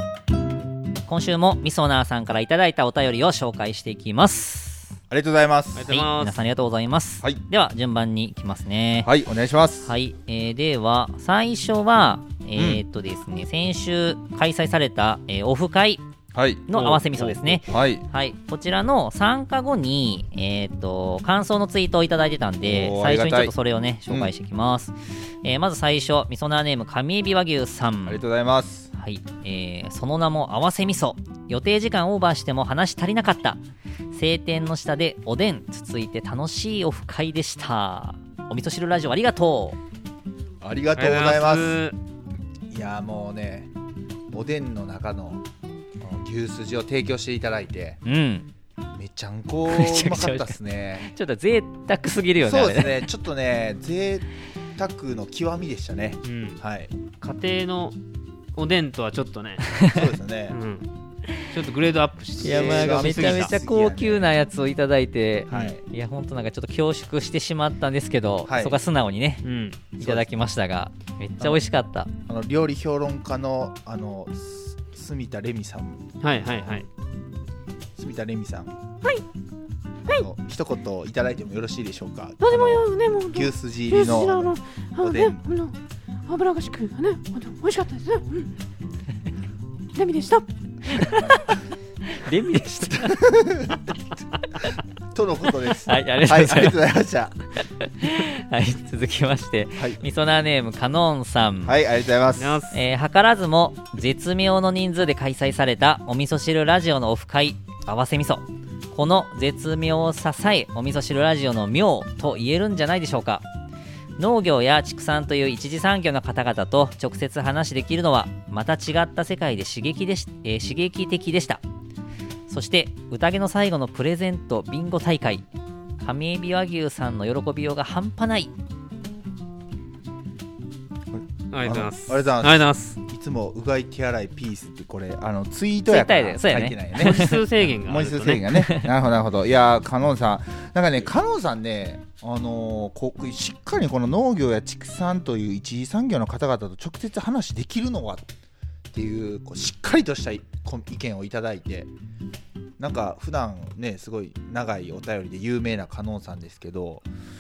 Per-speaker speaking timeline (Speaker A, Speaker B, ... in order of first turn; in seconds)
Speaker A: 1.1-5.0, 5.9-9.1, 9.8-16.0, 16.7-28.2, 28.9-33.6, 34.1-39.8, 48.0-48.5, 49.7-53.1, 62.4-69.4, 70.0-72.1, 90.9-91.5, 92.0-93.3, 95.7-96.8, 97.6-101.8, 102.7-113.4, 114.2-121.6, 122.5-125.5, 126.0-128.5, 135.9-137.4, 138.6-138.8
Speaker B: 5.1-5.9, 9.0-9.9, 12.6-12.8, 16.3-18.0, 22.6-23.5, 28.1-28.9, 40.6-41.8, 42.7-43.7, 44.3-45.4, 46.0-48.0, 48.9-51.1, 52.4-56.9, 59.9-60.6, 62.4-64.3, 65.5-65.8, 68.4-68.8, 70.0-70.3, 72.3-76.8, 78.0-78.7, 80.1-85.6, 91.0-91.5, 92.9-93.9, 95.1-97.3, 99.8-100.0, 101.6-102.6, 131.1-148.3, 148.9-151.9, 152.8-157.0
Speaker C: 5.8-6.4, 41.0-42.0, 56.2-56.6, 57.2-57.9, 58.5-59.8, 60.5-60.9, 61.5-63.5, 69.4-69.8, 76.2-76.9, 82.5-83.3, 87.0-87.8, 102.4-102.8, 131.5-132.9, 136.9-138.4
Speaker D: 82.4-83.3, 83.9-85.5, 86.3-88.4, 90.0-90.4